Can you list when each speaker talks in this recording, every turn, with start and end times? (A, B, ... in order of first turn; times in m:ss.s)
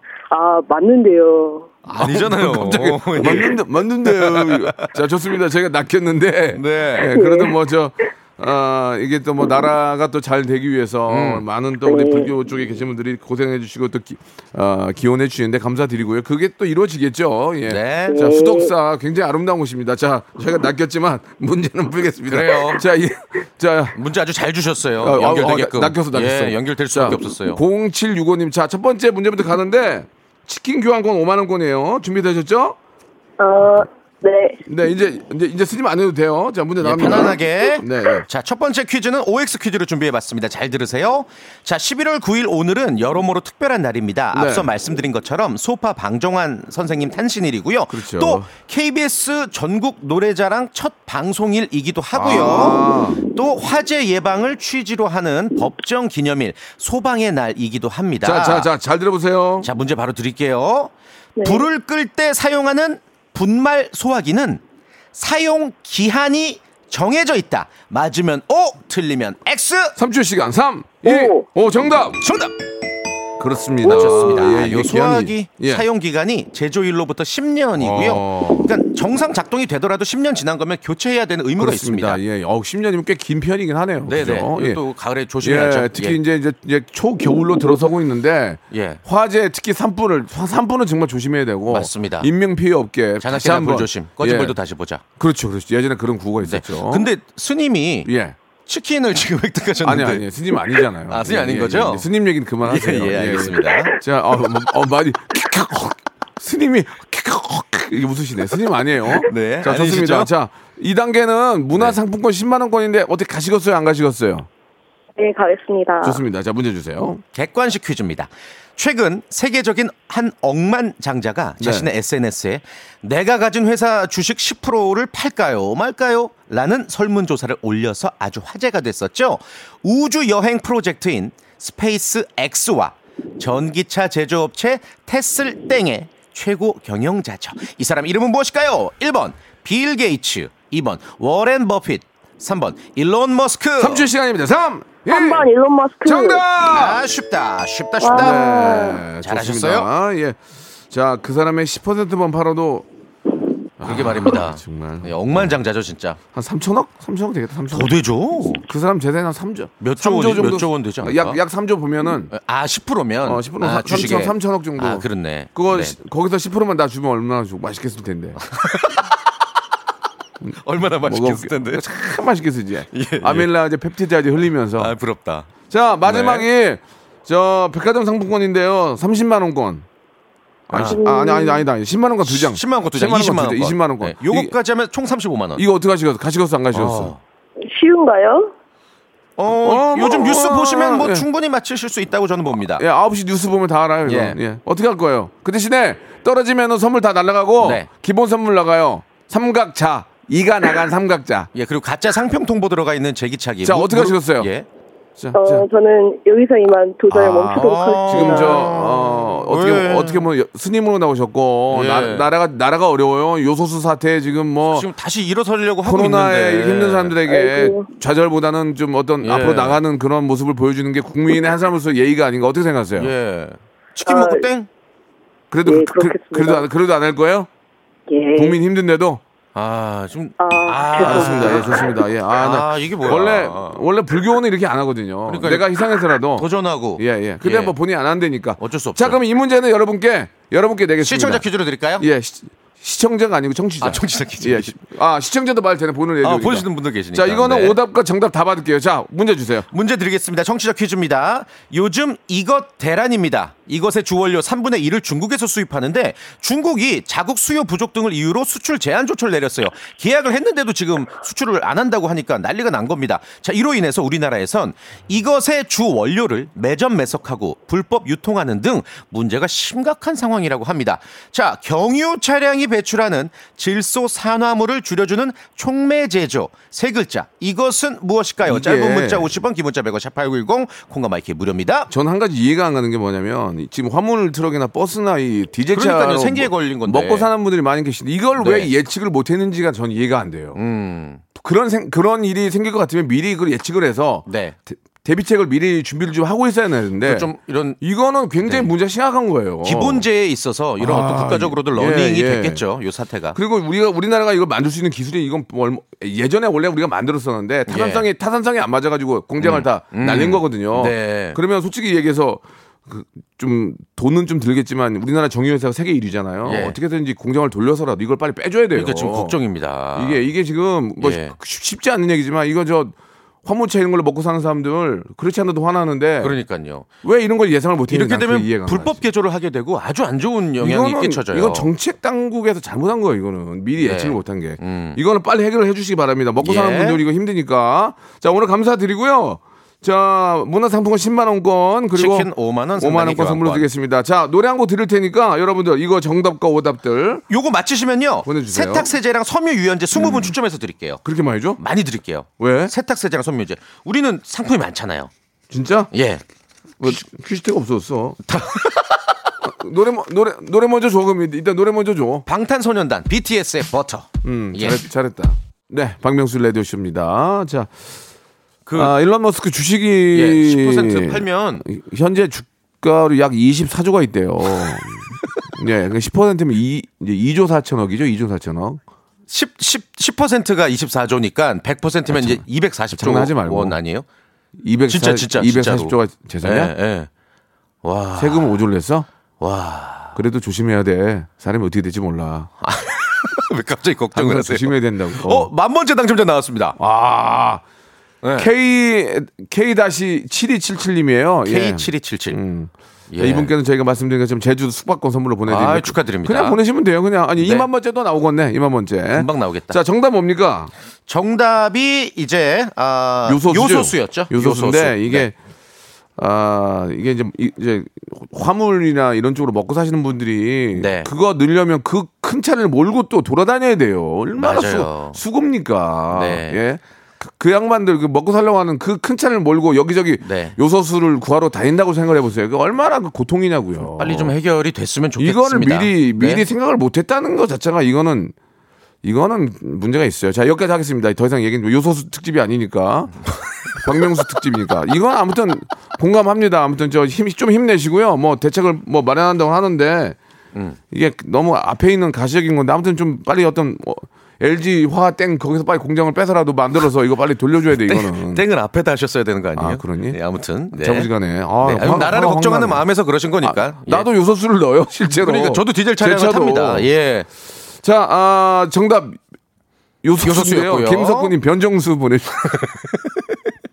0:00.3-0:01.7 A
0:01.9-0:04.9 B
0:01.9-0:24.0 C
0:06.5-0:07.1 B
0:07.1-0:07.6 A
0:11.1-0:11.4 B
0:11.8-0:12.3 A
0:17.7-0:18.2 B
0:18.1-0:18.7 A
0:22.3-0:22.8 B
0:23.9-0:27.6 B
0:25.0-0:32.8 C
0:33.4-0:34.6 A
0:34.7-0:38.3 C
0:36.8-0:58.7 B
0:44.3-0:44.7 C
0:47.9-0:48.5 C
0:52.1-0:53.2 C
0:58.2-0:59.7 C
0:59.6-1:00.9 B
1:01.4-1:01.7 A
1:01.4-1:04.6 B
1:05.2-1:10.0 B
1:10.0-1:12.2 C
1:11.0-1:11.4 A
1:12.2-1:12.5 B
1:13.4-1:15.8 C
1:13.8-1:22.2 B
1:17.8-1:18.7 C
1:21.6-1:24.8 C
1:24.1-1:26.2 B
1:25.4-1:34.6 C
1:28.7-1:29.0 B
1:31.7-1:32.3 B
1:33.2-1:35.0 B
1:35.2-1:37.1 C
1:36.4-1:38.1 B
1:38.0-1:38.4 C
1:38.7-1:40.3 B
1:39.8-1:54.5 C
1:41.1-1:42.1 B
1:42.6-1:44.0 B
1:49.2-1:50.3 B
1:55.2-1:56.2 A
1:56.0-1:57.2 C
1:57.3-2:24.1 B
2:01.6-2:01.9 C
2:23.8-2:25.5 C
2:25.1-2:26.4 A
2:26.0-2:27.0 C
2:26.7-2:29.9 B
2:28.0-2:29.0 A
2:28.1-2:30.4 C
2:30.9-2:32.9 C
2:33.8-2:35.6 C
2:33.8-2:36.2 B
2:36.3-2:38.0 C
2:37.7-2:38.6 B
2:38.6-2:42.3 C
2:39.8-2:41.4 B
2:42.3-2:46.0 B
2:43.2-2:48.4 C
2:48.5-2:49.1 B
2:50.4-2:54.9 C
2:50.6-2:51.8 B
2:52.9-2:53.5 B
2:54.8-2:55.5 B
2:55.7-2:59.9 C
2:56.0-2:56.5 B
3:00.7-3:04.5 C
3:00.7-3:01.0 B
3:00.8-3:01.6 A
3:02.2-3:05.6 B
3:05.6-3:07.1 C
3:06.7-3:07.2 B
3:07.6-3:08.5 A
3:09.4-3:12.8 B
3:09.6-3:11.3 C
3:12.7-3:21.5 C
3:14.1-3:14.4 B
3:17.6-3:17.9 B
3:21.5-3:24.7 B
3:23.6-3:24.5 C
3:25.2-3:25.7 C
3:25.3-3:28.7 A
3:27.1-3:34.9 C
3:27.5-3:30.3 B
3:31.7-3:32.3 B
3:34.7-3:37.2 B
3:35.8-3:43.1 C
3:37.3-3:37.9 A
3:39.2-3:39.8 B
3:43.0-3:44.7 B
3:44.1-3:44.5 A
3:45.5-3:47.5 C
3:45.6-3:46.7 A
3:48.1-3:48.6 A
3:48.4-3:49.2 C
3:49.6-3:53.8 B
3:50.4-3:52.0 A
3:51.0-4:01.5 C
3:55.3-3:55.7 B
3:56.3-3:57.7 B
3:58.6-3:59.2 B
4:01.0-4:02.1 B
4:02.0-4:09.7 C
4:03.8-4:04.8 B
4:06.2-4:07.8 B
4:09.7-4:41.9 B
4:38.4-4:39.3 C
4:41.9-4:50.6 C
4:45.7-4:47.3 B
4:48.4-4:48.7 B
4:50.6-4:51.2 B
4:51.4-5:00.1 C
4:54.3-4:54.6 B
4:57.0-4:57.8 B
4:58.4-4:58.7 B
4:59.6-5:03.4 B
5:00.8-5:02.6 C
5:03.4-5:19.4 C
5:07.7-5:08.1 B
5:09.4-5:11.4 B
5:16.4-5:16.8 B
5:18.7-5:20.2 B
5:20.0-5:26.4 C
5:21.0-5:21.4 B
5:26.2-5:26.9 B
5:27.0-5:29.0 C
5:27.9-5:31.7 B
5:30.6-5:47.2 C
5:33.8-5:35.0 B
5:36.4-5:37.0 B
5:42.0-5:43.7 B
5:47.3-5:51.0 B
5:48.2-5:48.9 C
5:50.0-5:50.3 C
5:51.0-5:51.6 C
5:51.6-5:55.1 B
5:52.4-5:52.7 C
5:55.5-5:55.9 C
5:55.9-5:56.2 B
5:56.8-5:58.2 C
5:58.3-5:59.0 B
5:59.4-6:02.2 C
6:02.3-6:04.8 B
6:04.2-6:07.7 C
6:08.7-6:08.9 B
6:08.8-6:18.8 C
6:10.1-6:11.6 B
6:19.3-6:24.0 B
6:22.1-6:23.8 C
6:24.6-6:26.7 C
6:24.9-6:27.1 B
6:27.8-6:28.6 B
6:28.2-6:29.1 C
6:29.4-6:30.2 B
6:30.2-6:32.5 C
6:32.6-6:36.8 B
6:34.2-6:35.5 C
6:36.8-6:37.6 C
6:38.2-6:38.5 B
6:38.4-6:50.7 C
6:41.4-6:42.4 B
6:43.1-6:43.5 B
6:45.5-6:46.6 B
6:47.4-6:47.7 B
6:49.1-6:49.8 B
6:51.1-6:55.3 B
6:53.3-6:55.4 C
6:56.2-7:14.3 C
7:00.8-7:01.1 B
7:04.4-7:05.2 B
7:06.1-7:06.6 B
7:10.2-7:10.6 B
7:14.0-7:16.4 B
7:15.2-7:18.3 C
7:19.0-7:23.2 C
7:23.7-7:30.2 C
7:30.9-7:38.4 C
7:37.8-7:41.1 B
7:39.6-7:40.2 C
7:40.7-7:42.8 C
7:41.6-7:44.1 B
7:43.4-7:46.9 C
7:45.1-7:47.3 B
7:47.8-7:49.2 C
7:50.0-7:52.6 C
7:50.2-7:51.3 B
7:52.5-7:53.0 B